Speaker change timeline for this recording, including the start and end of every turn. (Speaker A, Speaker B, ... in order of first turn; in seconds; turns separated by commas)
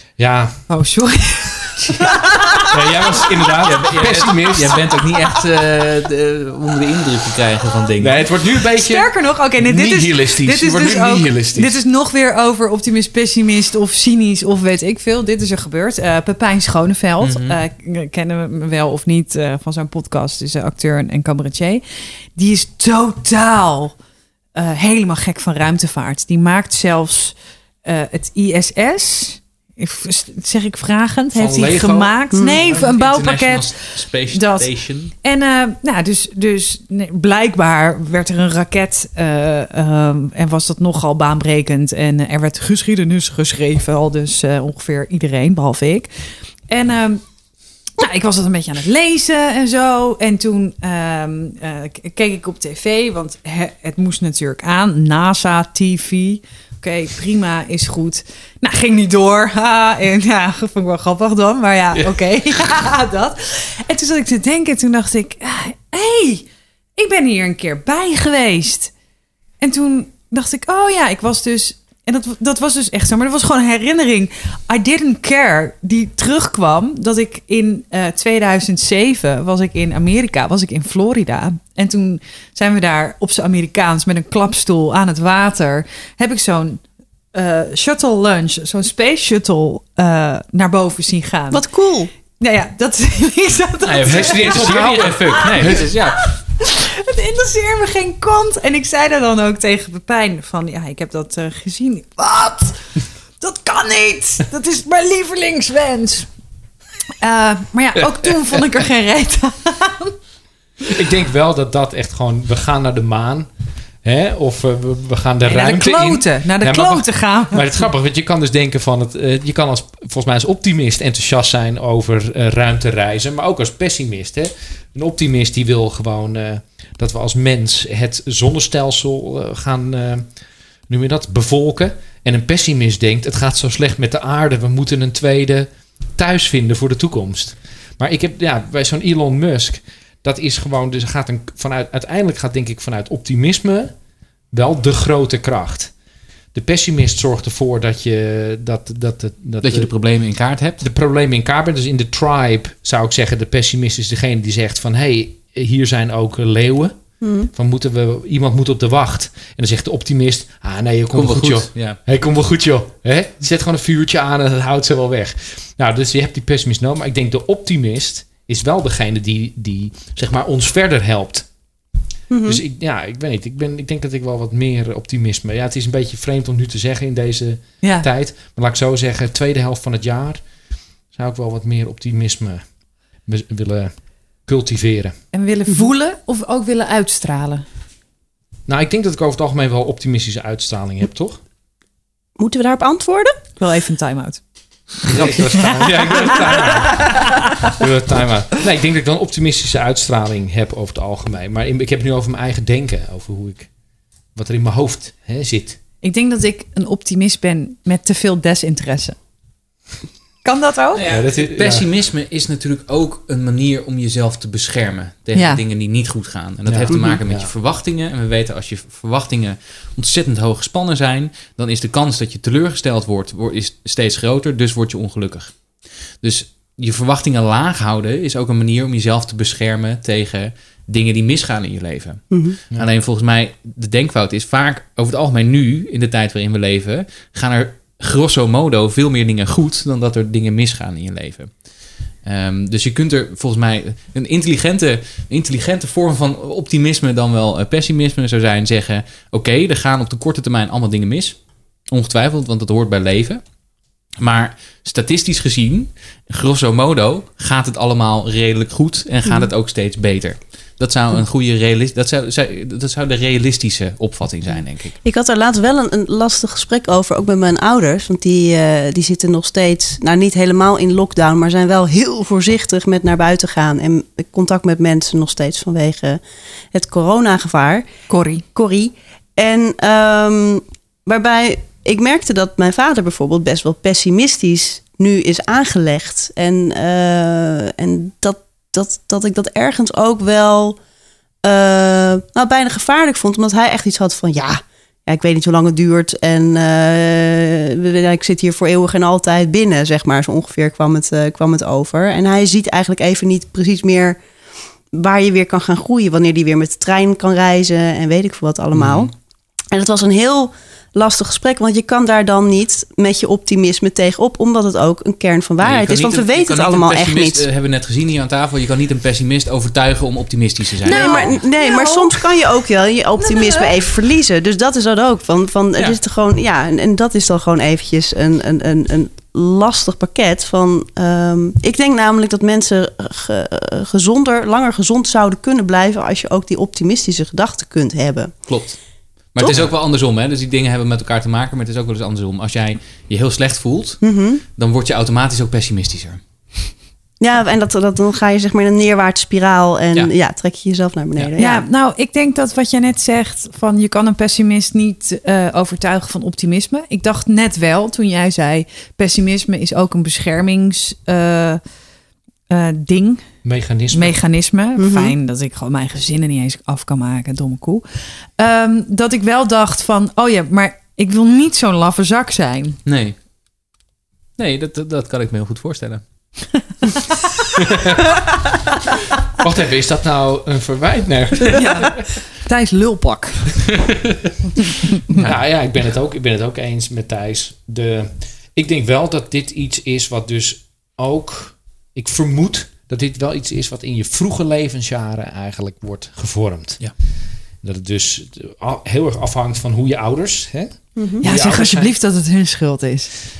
Speaker A: 0.2-0.7, Speaker B: 0.7-2.7, Speaker A: 2.7-4.8, Speaker C: 3.6-8.2, Speaker A: 8.0-11.8, Speaker B: 8.8-21.8, Speaker C: 17.2-17.6, Speaker B: 22.3-23.9, Speaker B: 24.5-46.1, Speaker A: 31.3-32.9, Speaker C: 32.7-35.1, Speaker B: 46.7-47.2, Speaker B: 48.0-68.9, Speaker B: 69.6-91.7, Speaker D: 91.5-92.1, Speaker B: 92.4-106.3, Speaker C: 93.8-96.2, Speaker A: 94.1-96.0, Speaker B: 107.2-110.1, Speaker A: 108.0-108.6, Speaker A: 110.9-113.5, Speaker A: 114.0-130.3, Speaker B: 115.5-117.7, Speaker A: 130.9-143.9, Speaker A: 144.5-145.9, Speaker A: 146.5-149.9, Speaker C: 149.6-150.8, Speaker A: 150.8-171.5, Speaker D: 157.2-157.5, Speaker C: 161.1-162.0, Speaker D: 172.3-172.6, Speaker A: 172.4-180.5, Speaker B: 177.8-178.1, Speaker A: 181.1-185.2, Speaker B: 185.3-187.6, Speaker A: 188.7-191.4, Speaker D: 192.4-193.3, Speaker B: 193.6-197.2, Speaker A: 195.1-203.7, Speaker A: 204.3-205.8, Speaker B: 206.0-209.2, Speaker B: 210.4-211.0, Speaker C: 210.9-265.0, Speaker A: 211.0-211.9, Speaker B: 215.3-215.6, Speaker A: 216.7-217.5, Speaker D: 216.9-217.2, Speaker D: 232.3-232.6, Speaker D: 265.0-276.2, Speaker D: 276.7-290.8, Speaker B: 278.1-278.4, Speaker D: 291.4-304.2, Speaker D: 304.9-309.1, Speaker C: 308.7-309.1, Speaker D: 309.7-317.4, Speaker C: 315.6-321.4, Speaker D: 320.8-338.7, Speaker B: 320.9-322.2, Speaker B: 323.2-323.8, Speaker C: 338.5-346.2, Speaker D: 339.4-339.7, Speaker D: 344.0-344.4, Speaker D: 347.2-351.7, Speaker B: 351.4-361.6, Speaker B: 362.5-363.2, Speaker A: 363.4-364.1, Speaker B: 363.9-367.8, Speaker D: 364.8-365.1, Speaker B: 368.4-372.8, Speaker C: 372.8-373.2, Speaker C: 374.4-376.3, Speaker A: 379.4-382.1, Speaker B: 381.5-383.6, Speaker C: 385.1-385.4, Speaker A: 385.2-401.9, Speaker D: 400.9-401.2, Speaker B: 401.2-403.1